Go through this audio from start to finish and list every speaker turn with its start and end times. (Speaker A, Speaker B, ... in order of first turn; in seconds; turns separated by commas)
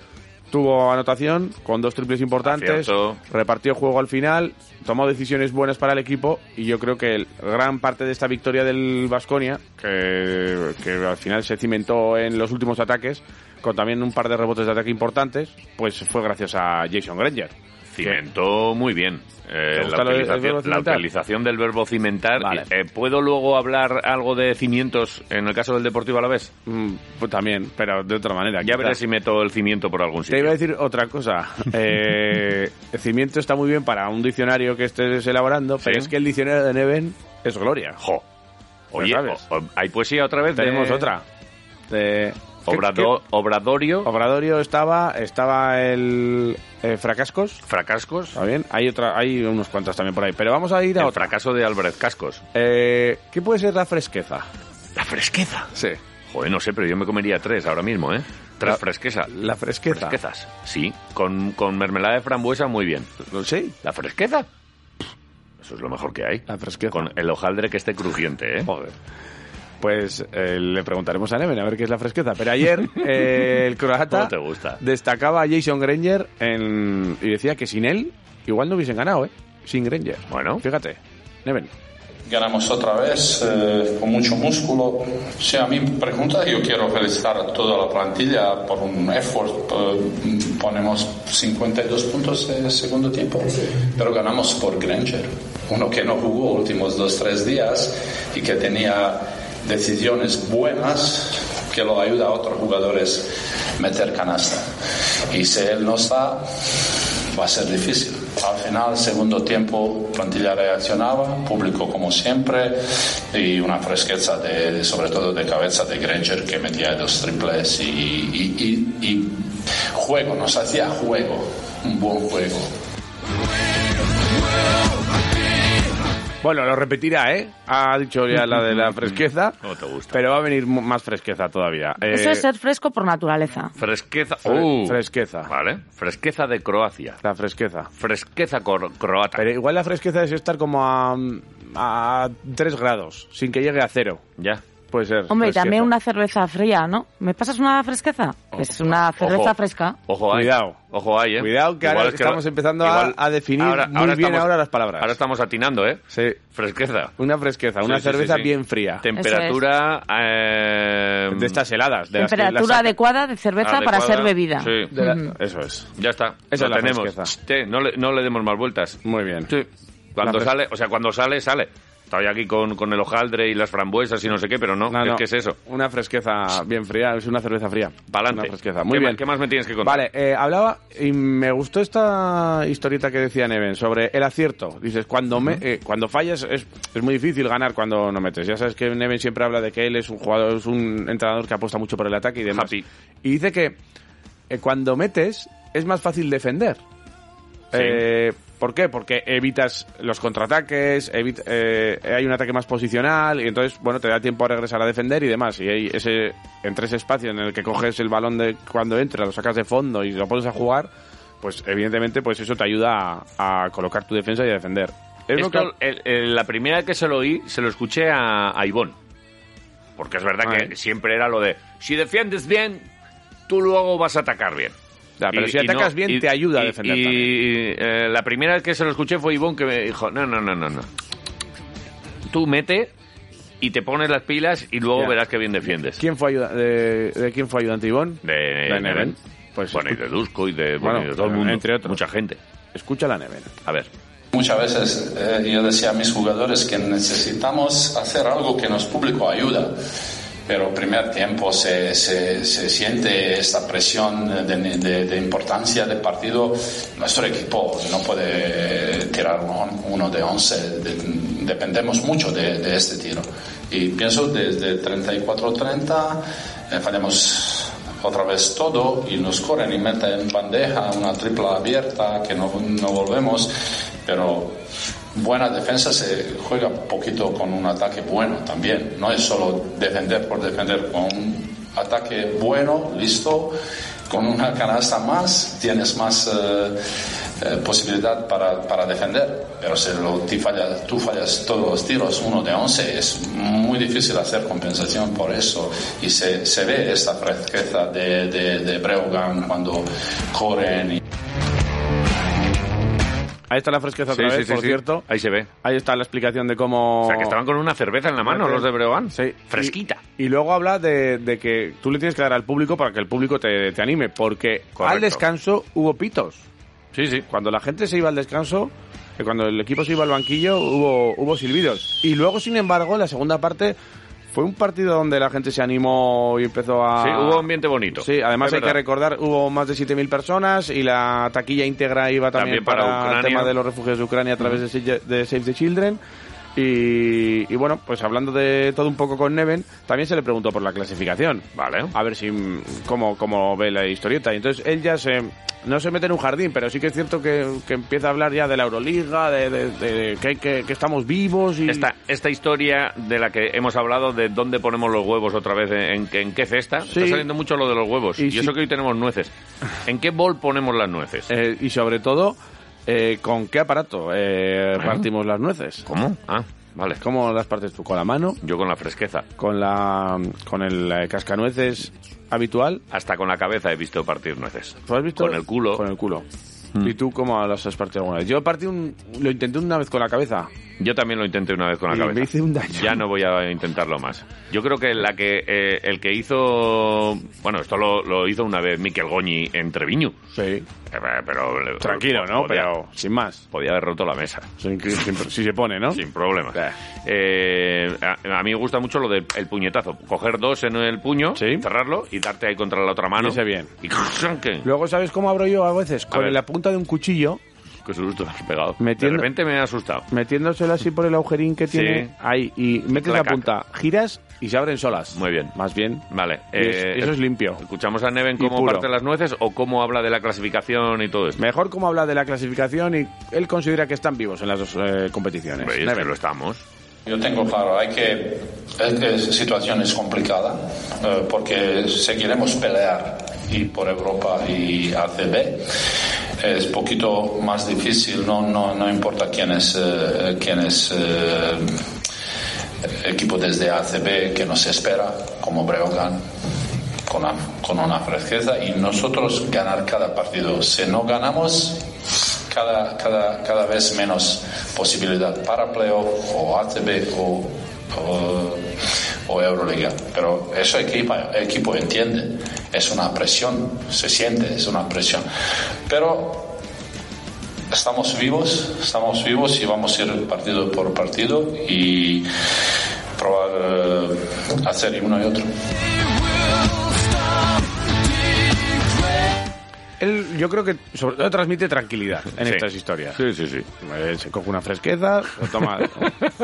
Speaker A: 0.5-18.2, Speaker B: 2.4-3.2, Speaker B: 17.9-26.5, Speaker A: 19.8-21.0, Speaker A: 22.4-22.7, Speaker A: 26.7-29.0, Speaker B: 28.6-30.5, Speaker A: 30.3-38.0, Speaker B: 35.8-36.1, Speaker B: 38.9-41.1, Speaker A: 39.0-39.4, Speaker A: 40.5-41.2, Speaker A: 41.9-43.1, Speaker B: 42.7-44.1, Speaker A: 44.0-47.6, Speaker B: 47.7-48.4, Speaker A: 48.3-51.3, Speaker B: 51.0-52.4, Speaker A: 52.5-54.5, Speaker B: 55.0-55.7, Speaker B: 56.3-59.3, Speaker A: 58.6-60.2, Speaker B: 59.9-63.1, Speaker A: 63.3-63.7, Speaker B: 63.8-64.5, Speaker B: 65.6-68.9, Speaker A: 66.5-67.1, Speaker A: 69.8-81.7, Speaker B: 74.1-74.8, Speaker B: 80.3-80.6, Speaker C: 82.3-104.7, Speaker C: 105.3-122.7, Speaker A: 126.4-129.6, Speaker B: 129.6-130.2, Speaker A: 130.1-132.5, Speaker D: 132.1-133.7, Speaker B: 133.8-137.2, Speaker A: 134.4-135.5, Speaker A: 137.2-137.9, Speaker B: 138.0-139.4, Speaker A: 139.4-144.2, Speaker A: 144.9-145.9, Speaker D: 145.3-150.0, Speaker B: 148.8-156.0, Speaker A: 150.3-150.8, Speaker A: 151.4-155.1, Speaker A: 156.1-156.4, Speaker B: 156.5-157.1, Speaker A: 157.2-159.0, Speaker B: 157.8-158.5, Speaker B: 159.0-161.6, Speaker D: 159.2-159.6, Speaker A: 161.3-162.9, Speaker D: 162.2-165.3, Speaker B: 163.6-164.9, Speaker A: 164.9-165.9, Speaker B: 166.0-175.6, Speaker A: 166.5-167.3, Speaker A: 169.1-169.5, Speaker A: 170.2-170.5, Speaker A: 174.9-179.2, Speaker B: 178.1-180.1, Speaker A: 179.8-192.7, Speaker B: 192.5-192.8, Speaker A: 193.2-193.8, Speaker A: 194.5-196.8, Speaker A: 197.7-210.9, Speaker B: 197.7-198.0, Speaker A: 211.4-215.7, Speaker B: 215.4-218.9, Speaker B: 220.0-222.8, Speaker A: 220.4-220.7, Speaker B: 223.5-224.7, Speaker A: 225.2-227.3, Speaker B: 225.3-230.9, Speaker B: 232.3-232.9, Speaker B: 233.6-236.0, Speaker A: 236.0-240.0, Speaker B: 238.2-239.1, Speaker B: 239.7-242.4, Speaker A: 240.8-242.0, Speaker A: 242.7-243.5, Speaker C: 244.3-249.8, Speaker C: 250.5-274.6, Speaker C: 275.1-283.5, Speaker C: 284.1-286.8, Speaker C: 287.4-301.0, Speaker A: 303.5-305.1, Speaker B: 304.1-305.5, Speaker A: 305.6-307.4, Speaker B: 307.0-310.0, Speaker A: 308.2-316.4, Speaker B: 314.8-315.2, Speaker B: 316.9-317.3, Speaker A: 317.3-323.8, Speaker A: 324.3-336.0, Speaker B: 327.0-328.8, Speaker B: 332.4-333.5, Speaker A: 336.6-351.9, Speaker B: 341.6-341.9, Speaker B: 351.7-359.3, Speaker A: 356.9-357.3, Speaker A: 358.2-358.5, Speaker B: 359.9-361.3, Speaker A: 361.3-365.9, Speaker B: 365.9-367.0, Speaker A: 367.0-368.4, Speaker B: 368.4-369.3, Speaker A: 369.4-372.8, Speaker B: 372.9-375.8, Speaker A: 374.9-376.2, Speaker A: 376.8-380.5, Speaker B: 380.8-390.2, Speaker A: 381.9-383.0, Speaker A: 390.4-390.7, Speaker B: 390.9-392.7, Speaker A: 391.8-393.4, Speaker B: 393.5-394.5, Speaker A: 394.6-396.0, Speaker B: 395.9-404.6, Speaker A: 401.4-401.6, Speaker A: 403.2-403.7, Speaker A: 404.6-407.4, Speaker B: 406.1-406.4, Speaker B: 407.9-410.1, Speaker A: 408.8-409.3, Speaker A: 410.1-417.6, Speaker B: 411.7-412.1, Speaker B: 412.9-413.4, Speaker B: 415.1-415.5, Speaker B: 416.1-421.4, Speaker A: 418.4-418.9, Speaker A: 421.4-426.1, Speaker B: 425.6-426.6, Speaker C: 427.1-435.8, Speaker C: 436.4-441.8, Speaker C: 443.0-446.2, Speaker C: 447.1-451.9, Speaker C: 452.5-458.7, Speaker C: 459.3-465.3, Speaker C: 465.9-466.6, Speaker C: 467.7-472.3, Speaker C: 473.2-475.5, Speaker A: 480.0-483.2, Speaker B: 483.2-483.7, Speaker A: 483.8-486.2